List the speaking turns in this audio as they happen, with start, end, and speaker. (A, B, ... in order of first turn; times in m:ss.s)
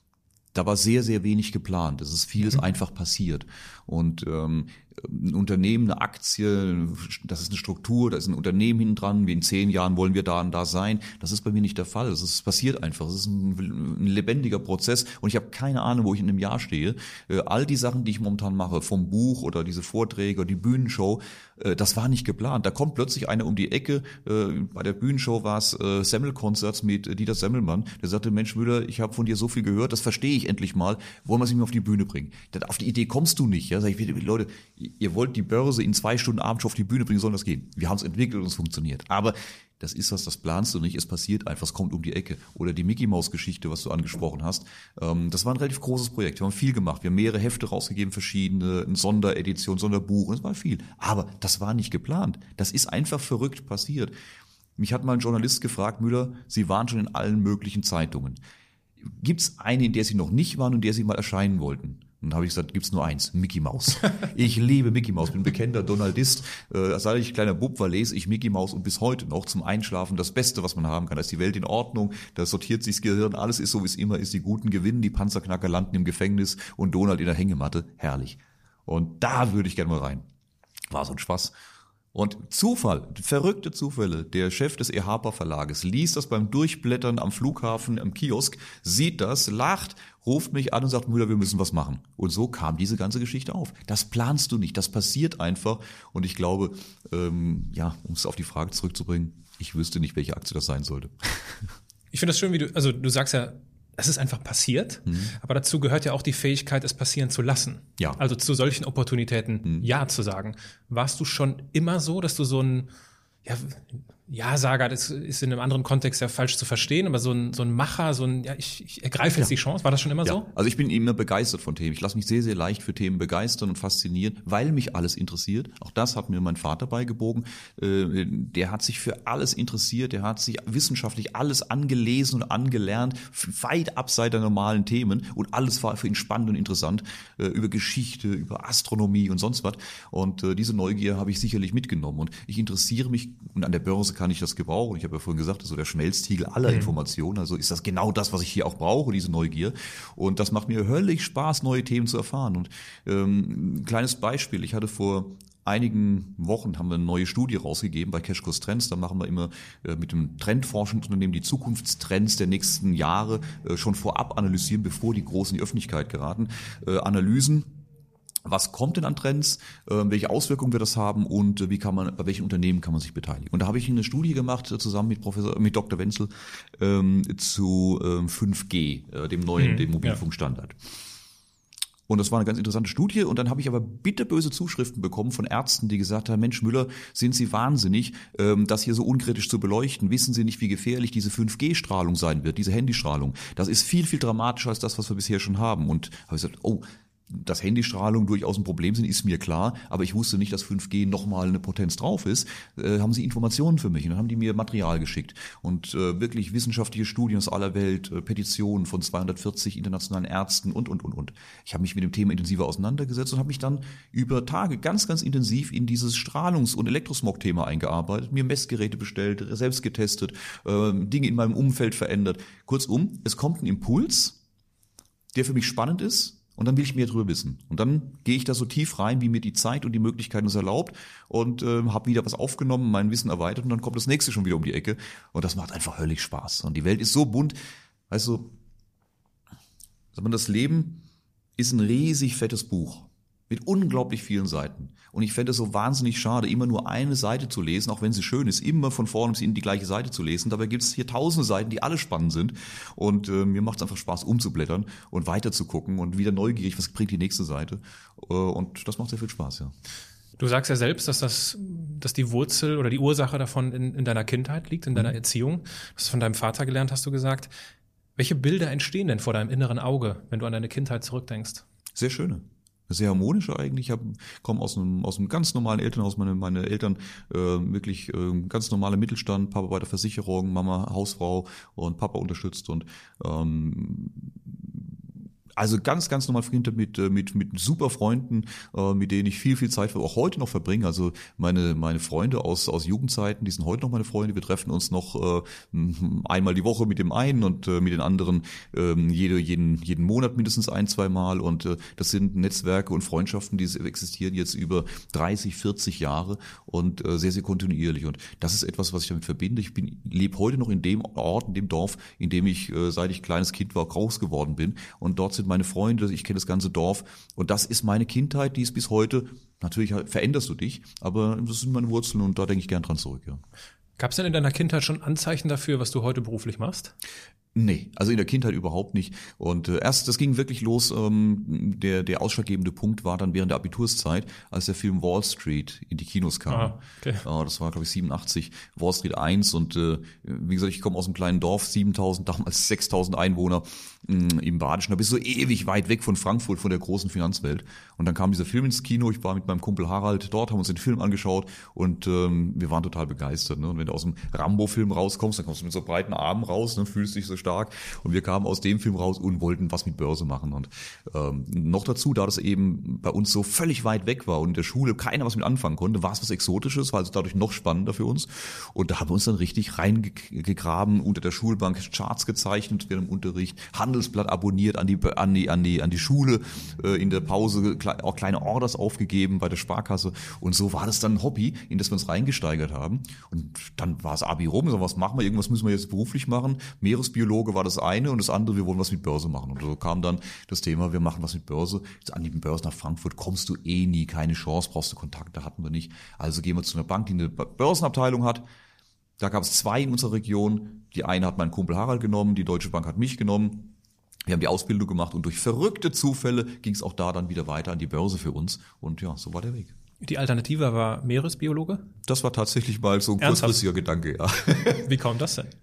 0:00.5-0:54.1 A
0:54.8-0:58.4 A
0:59.0-1:20.2 A
1:20.9-1:21.5 A
1:22.1-1:41.7 A
1:42.1-1:52.9 B
1:45.1-1:45.4 A
1:53.4-2:00.5 B
2:00.2-2:47.7 A
2:26.7-2:26.9 B
2:48.4-3:00.8 A
2:59.6-3:00.2 B
3:02.1-3:44.4 A
3:45.3-3:57.6 A
3:58.1-3:58.5 A
4:00.1-4:01.0 A
4:01.6-4:19.7 A
4:20.4-4:27.5 B
4:28.2-4:31.6 B
4:31.9-4:45.0 A
4:45.5-5:23.4 A
5:24.0-5:26.9 B
5:27.5-6:38.4 A
5:36.5-5:37.2 B
6:39.2-6:43.7 A
6:44.2-6:49.7 A
6:50.0-6:51.8 B
6:52.0-6:54.9 A
6:53.2-6:53.6 B
6:54.7-6:55.5 B